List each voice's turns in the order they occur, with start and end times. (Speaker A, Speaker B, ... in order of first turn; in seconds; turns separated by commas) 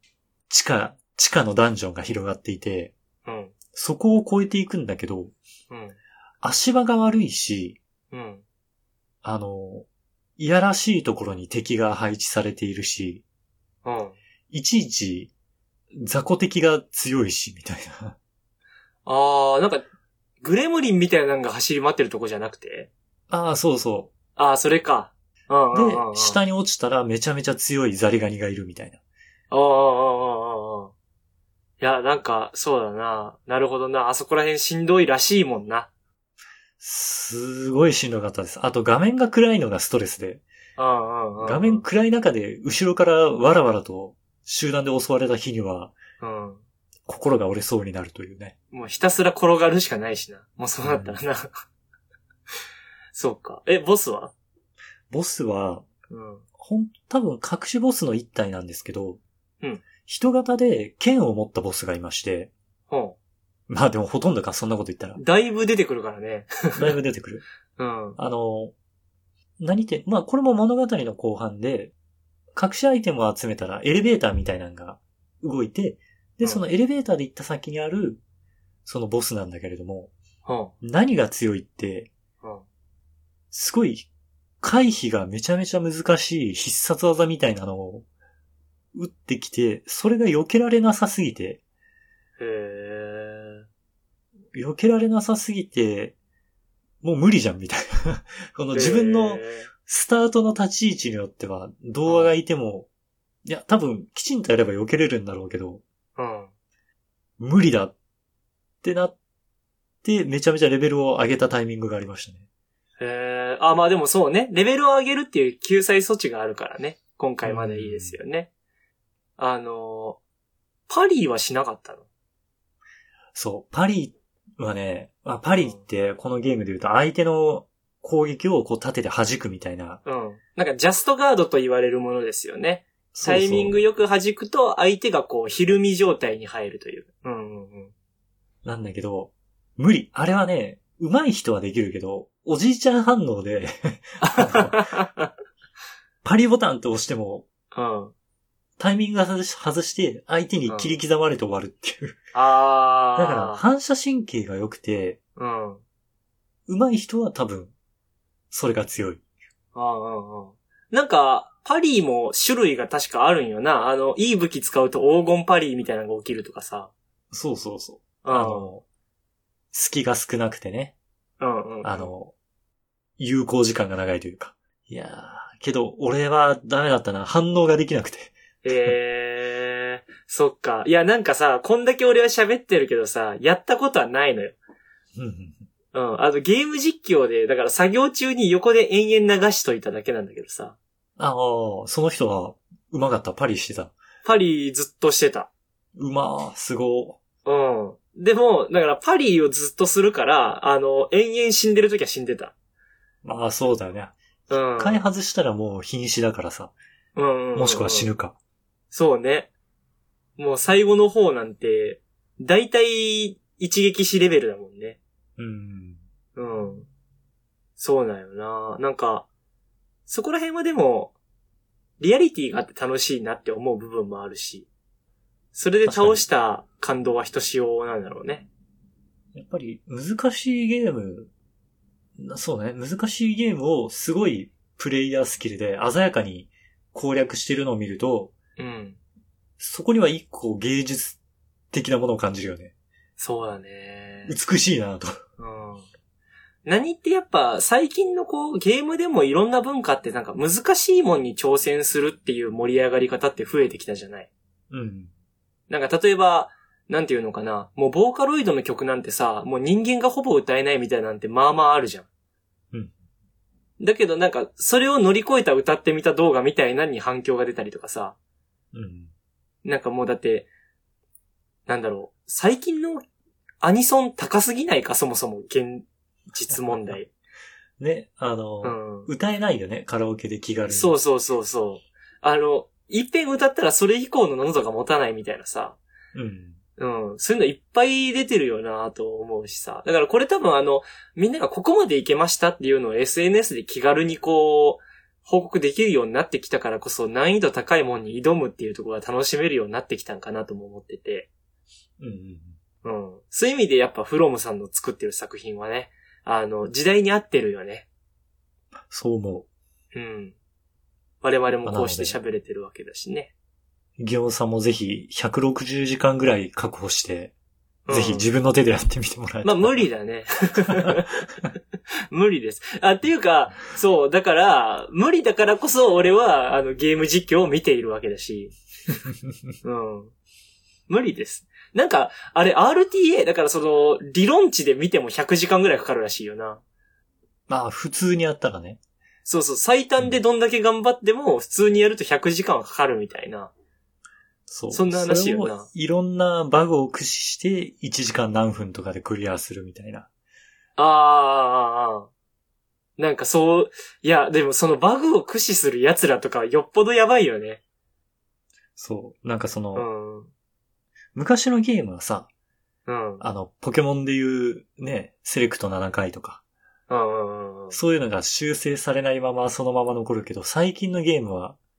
Speaker A: 0.5-2.9, Speaker B: 3.2-3.5, Speaker A: 3.7-5.3, Speaker B: 5.7-6.0, Speaker A: 6.4-7.8, Speaker B: 8.1-8.4, Speaker A: 9.2-13.2, Speaker B: 13.8-14.2, Speaker A: 14.5-15.3, Speaker A: 16.0-18.1, Speaker B: 19.1-19.8, Speaker B: 20.4-22.9, Speaker A: 23.3-24.1, Speaker B: 24.4-26.4, Speaker A: 25.7-29.0, Speaker B: 29.5-30.9, Speaker B: 31.8-35.9, Speaker A: 36.8-40.4, Speaker B: 40.8-41.8, Speaker A: 41.4-46.0, Speaker B: 46.2-46.6, Speaker A: 47.1-48.5, Speaker B: 48.7-51.6, Speaker A: 50.8-51.2, Speaker B: 53.1-54.3, Speaker A: 55.1-55.9, Speaker B: 56.1-56.4, Speaker A: 56.6-59.2, Speaker A: 60.0-62.5, Speaker B: 62.9-63.1, Speaker A: 63.7-65.2, Speaker B: 65.2-66.9, Speaker A: 66.8-67.4, Speaker B: 67.8-68.2, Speaker A: 68.2-68.7, Speaker A: 69.6-71.9, Speaker A: 72.5-78.2, Speaker A: 78.8-80.1, Speaker B: 80.4-80.7, Speaker A: 80.8-82.1, Speaker A: 83.5-84.1, Speaker A: 84.6-88.0, Speaker A: 88.9-91.6, Speaker B: 92.4-93.6, Speaker A: 94.5-96.2, Speaker A: 97.0-102.9, Speaker B: 98.7-99.7, Speaker B: 102.0-102.3, Speaker A: 103.4-105.8, Speaker B: 106.2-106.5, Speaker A: 107.4-107.9, Speaker A: 108.8-109.1, Speaker A: 110.0-112.4, Speaker B: 113.0-118.5, Speaker A: 117.4-118.2, Speaker B: 119.4-120.2, Speaker B: 120.9-122.0, Speaker A: 123.3-130.0, Speaker B: 125.6-125.8, Speaker B: 130.0-137.9, Speaker A: 133.1-133.8, Speaker A: 138.6-144.8, Speaker B: 144.2-145.3, Speaker A: 146.2-147.4, Speaker B: 147.7-148.1, Speaker A: 148.8-152.2, Speaker B: 152.3-153.6, Speaker A: 153.2-155.2, Speaker B: 155.4-155.8, Speaker A: 156.7-157.7, Speaker A: 158.5-159.2, Speaker B: 159.7-166.9, Speaker A: 167.3-168.8, Speaker B: 168.2-168.7, Speaker A: 169.7-170.9, Speaker B: 171.4-172.1, Speaker A: 171.8-172.3, Speaker A: 173.2-178.9, Speaker B: 178.6-184.6, Speaker A: 185.1-185.6, Speaker B: 185.9-190.8, Speaker A: 191.2-193.9, Speaker B: 194.2-195.5, Speaker A: 195.9-197.2, Speaker B: 197.4-202.5, Speaker A: 203.2-206.7, Speaker B: 204.5-205.0, Speaker B: 207.2-208.1, Speaker A: 207.5-208.3, Speaker B: 208.9-209.5, Speaker B: 210.4-215.0, Speaker A: 215.4-216.0, Speaker B: 216.3-216.9, Speaker B: 217.8-219.3, Speaker B: 220.1-221.1, Speaker B: 222.0-224.7, Speaker B: 225.5-228.5, Speaker A: 225.8-226.2, Speaker A: 229.3-231.3, Speaker A: 232.2-238.3, Speaker B: 238.6-239.0, Speaker A: 239.6-241.2, Speaker A: 241.7-242.7, Speaker B: 243.2-244.3, Speaker A: 244.3-245.1, Speaker B: 245.4-245.8, Speaker B: 246.6-254.3, Speaker A: 254.7-255.1, Speaker B: 255.7-262.1, Speaker B: 263.8-268.1, Speaker A: 268.7-269.1, Speaker B: 269.6-270.5, Speaker B: 271.7-273.0, Speaker B: 273.6-277.1, Speaker A: 276.5-276.9, Speaker A: 277.8-281.0, Speaker B: 278.6-279.1, Speaker B: 280.7-285.8, Speaker A: 286.1-286.6, Speaker B: 286.8-301.3, Speaker A: 302.0-302.6, Speaker B: 302.8-307.9, Speaker A: 308.9-309.5, Speaker B: 309.9-310.4, Speaker B: 311.2-313.3, Speaker A: 311.6-312.2, Speaker A: 314.0-317.3, Speaker B: 317.9-318.2, Speaker A: 317.9-319.9, Speaker B: 319.4-321.1, Speaker B: 322.1-328.6, Speaker B: 329.6-330.1, Speaker B: 330.9-336.6, Speaker A: 337.5-338.8, Speaker B: 339.2-343.5, Speaker A: 344.5-350.1, Speaker B: 344.7-345.7, Speaker B: 350.8-352.1, Speaker B: 353.0-357.6, Speaker A: 358.8-359.9, Speaker B: 359.7-360.3, Speaker A: 361.1-362.3, Speaker B: 362.9-363.2, Speaker A: 363.2-366.4, Speaker B: 366.9-367.8, Speaker A: 367.7-371.6